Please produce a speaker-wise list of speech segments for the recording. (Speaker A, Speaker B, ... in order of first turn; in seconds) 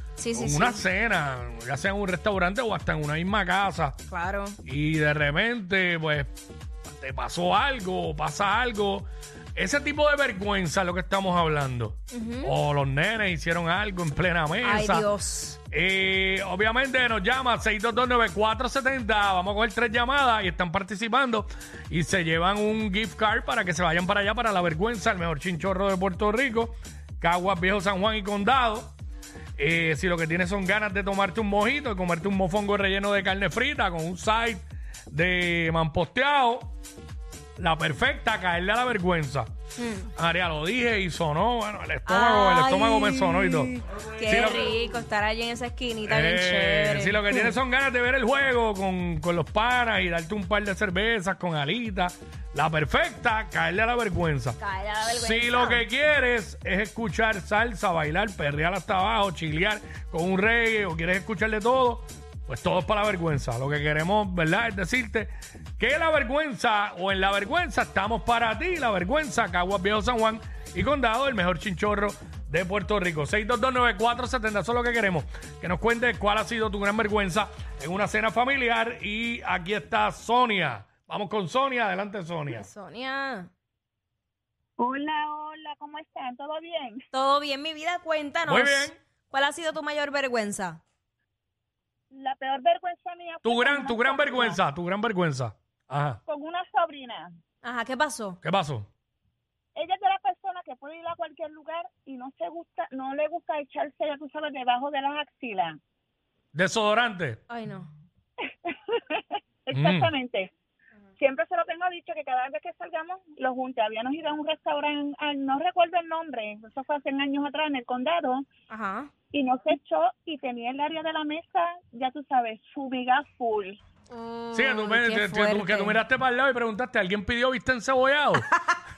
Speaker A: 0.2-0.8, 4.1-4.6, 12.1-12.5, 14.6-15.6, 39.8-40.1, 42.1-47.5, 54.6-55.8, 82.5-83.5, 87.1-90.8, 97.6-98.4, 107.5-107.9, 118.7-119.1, 124.1-126.0
Speaker B: 0.3-4.0, 4.7-6.3, 6.9-15.1, 15.7-28.9, 29.6-36.7, 37.6-39.5, 40.1-44.7, 46.1-82.7, 88.5-89.0, 93.4-96.2, 98.4-98.9, 106.5-107.4, 109.7-110.1, 124.5-128.5
Speaker C: 84.8-87.0, 92.1-94.6, 96.3-97.3, 99.8-105.8, 108.4-110.5, 111.2-118.5, 119.3-123.8